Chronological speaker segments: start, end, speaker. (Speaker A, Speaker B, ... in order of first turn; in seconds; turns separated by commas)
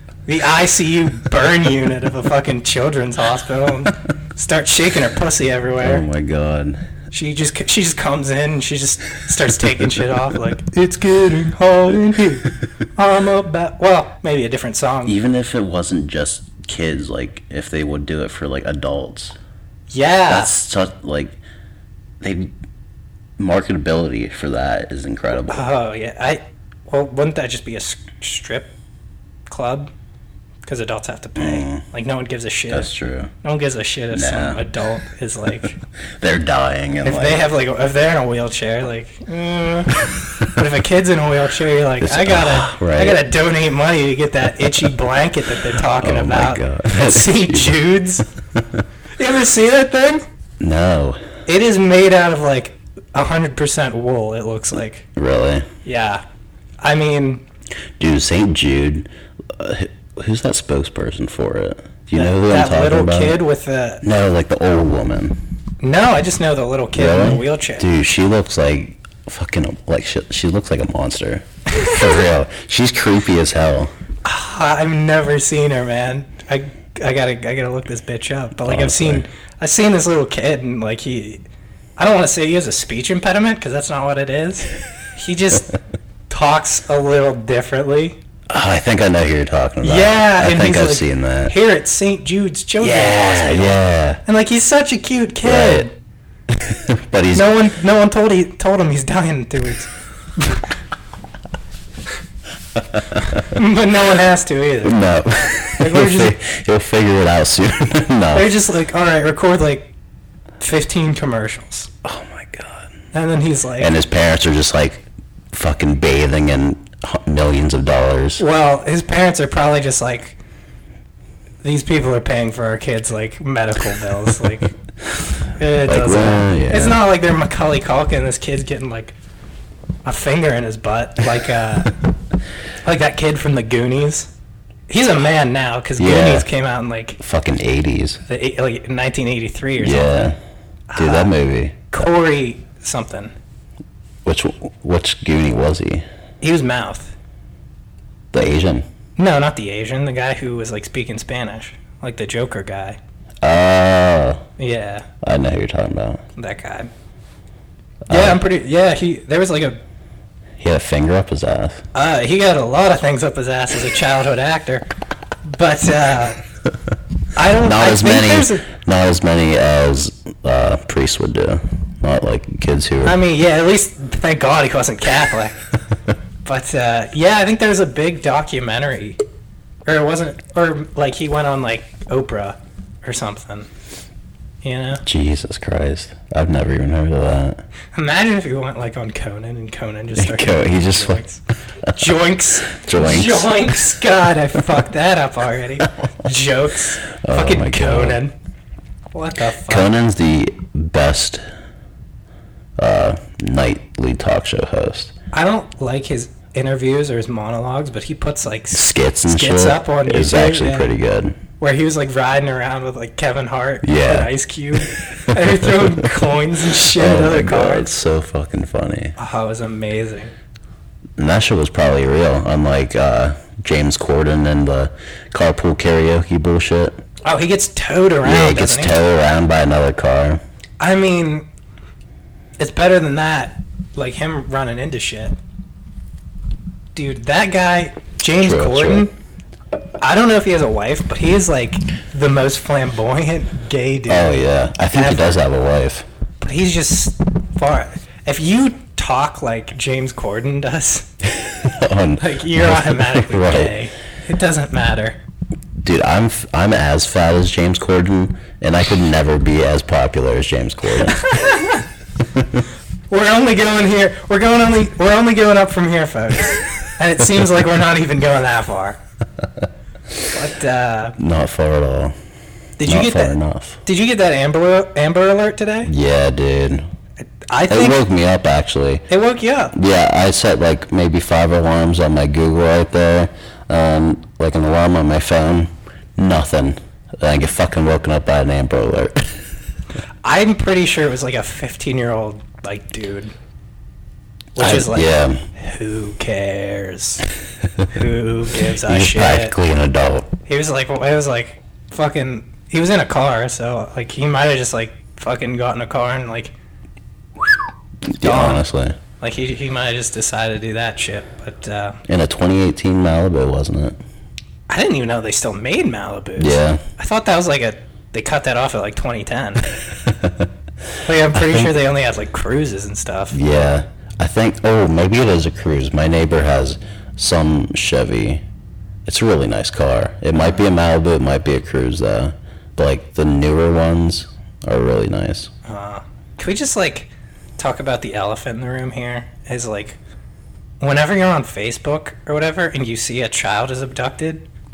Speaker A: 0.3-6.0, Speaker B: 5.8-6.8, Speaker A: 7.1-15.2, Speaker B: 15.0-19.3, Speaker A: 19.9-20.5, Speaker B: 20.3-21.4, Speaker B: 22.2-22.5, Speaker B: 23.4-25.7, Speaker A: 25.5-28.7, Speaker A: 29.5-29.9, Speaker A: 30.6-32.9, Speaker B: 31.4-31.8, Speaker B: 32.7-33.3, Speaker A: 33.4-35.8, Speaker B: 34.1-34.6, Speaker B: 36.2-37.5, Speaker A: 37.0-39.9, Speaker A: 40.5-48.2, Speaker B: 42.0-43.2, Speaker B: 45.9-47.8, Speaker B: 48.5-48.8, Speaker A: 49.2-50.2, Speaker B: 50.6-51.2, Speaker A: 51.5-55.0, Speaker B: 55.1-55.7, Speaker A: 55.8-56.2, Speaker A: 56.8-57.4, Speaker B: 58.0-63.4, Speaker A: 62.1-64.0, Speaker B: 64.0-65.4, Speaker A: 65.8-67.9, Speaker B: 66.9-73.9, Speaker A: 71.8-72.0, Speaker A: 74.2-81.4, Speaker B: 78.6-79.2, Speaker A: 82.0-85.7, Speaker A: 86.3-88.2, Speaker B: 88.5-91.5, Speaker A: 89.8-95.9, Speaker B: 92.8-94.2, Speaker B: 95.4-95.9, Speaker B: 96.5-97.5, Speaker A: 97.3-100.7, Speaker B: 102.9-103.5, Speaker A: 103.5-105.0, Speaker B: 104.8-108.5, Speaker A: 105.8-106.3, Speaker A: 108.3-109.9, Speaker A: 110.6-111.9, Speaker B: 112.0-113.0, Speaker A: 113.1-113.9, Speaker B: 113.8-118.4, Speaker A: 118.4-120.4, Speaker A: 121.6-124.7, Speaker A: 125.6-129.2, Speaker B: 125.8-127.0, Speaker A: 130.0-131.9, Speaker A: 132.8-134.3, Speaker A: 134.9-137.2, Speaker B: 136.0-136.5, Speaker B: 137.2-138.2, Speaker A: 138.3-140.3, Speaker B: 139.8-140.4, Speaker A: 140.9-141.3, Speaker B: 140.9-141.8, Speaker A: 141.9-143.3, Speaker B: 144.2-146.0, Speaker A: 146.4-147.1, Speaker B: 148.3-148.8, Speaker A: 149.2-153.0, Speaker B: 153.4-154.4, Speaker A: 154.6-155.1, Speaker B: 155.2-156.2, Speaker A: 156.3-156.9, Speaker B: 158.1-158.4, Speaker A: 158.1-159.8, Speaker B: 160.6-161.8, Speaker A: 161.9-164.9, Speaker A: 165.4-166.4, Speaker A: 167.3-168.6, Speaker B: 167.6-173.2, Speaker A: 173.0-175.6, Speaker A: 176.4-179.2, Speaker A: 179.8-183.7, Speaker A: 184.6-185.0, Speaker B: 185.0-187.6, Speaker A: 187.9-191.4, Speaker B: 190.1-191.2, Speaker B: 191.8-193.8, Speaker A: 191.9-198.3, Speaker B: 197.1-198.2, Speaker A: 199.1-199.9, Speaker B: 199.6-201.4, Speaker B: 202.8-205.1, Speaker A: 205.3-210.9, Speaker B: 208.7-211.4, Speaker A: 211.6-217.9, Speaker B: 213.8-214.3, Speaker B: 215.2-216.2, Speaker B: 216.8-219.2, Speaker A: 219.2-220.3, Speaker B: 221.2-227.0, Speaker A: 227.2-228.9, Speaker B: 228.2-230.4, Speaker A: 230.8-231.4, Speaker A: 232.6-235.4, Speaker A: 236.9-239.1, Speaker B: 238.4-239.1, Speaker A: 240.0-245.4, Speaker B: 244.1-246.1, Speaker A: 246.4-251.1, Speaker B: 251.4-253.8, Speaker A: 252.2-255.2, Speaker B: 255.8-261.3, Speaker A: 261.0-261.9, Speaker B: 262.3-262.6, Speaker A: 263.1-269.0, Speaker A: 270.3-271.1, Speaker B: 271.2-272.1, Speaker A: 272.8-273.3, Speaker B: 272.8-273.8, Speaker A: 273.9-275.9, Speaker B: 275.8-276.8, Speaker A: 277.5-278.0, Speaker B: 277.7-279.1, Speaker A: 279.1-279.7, Speaker B: 279.7-289.3, Speaker A: 290.2-293.3, Speaker A: 294.6-297.2, Speaker B: 294.6-295.4, Speaker A: 297.9-299.5, Speaker B: 298.8-300.3, Speaker A: 300.4-306.5, Speaker B: 308.1-309.0, Speaker A: 308.2-308.6, Speaker A: 309.2-312.0, Speaker B: 312.1-314.0, Speaker A: 314.7-319.6, Speaker B: 316.4-316.8, Speaker B: 320.0-320.5, Speaker A: 321.0-323.4, Speaker B: 321.3-321.7, Speaker B: 323.3-328.4, Speaker B: 329.1-335.5, Speaker A: 335.6-340.0, Speaker A: 340.8-344.4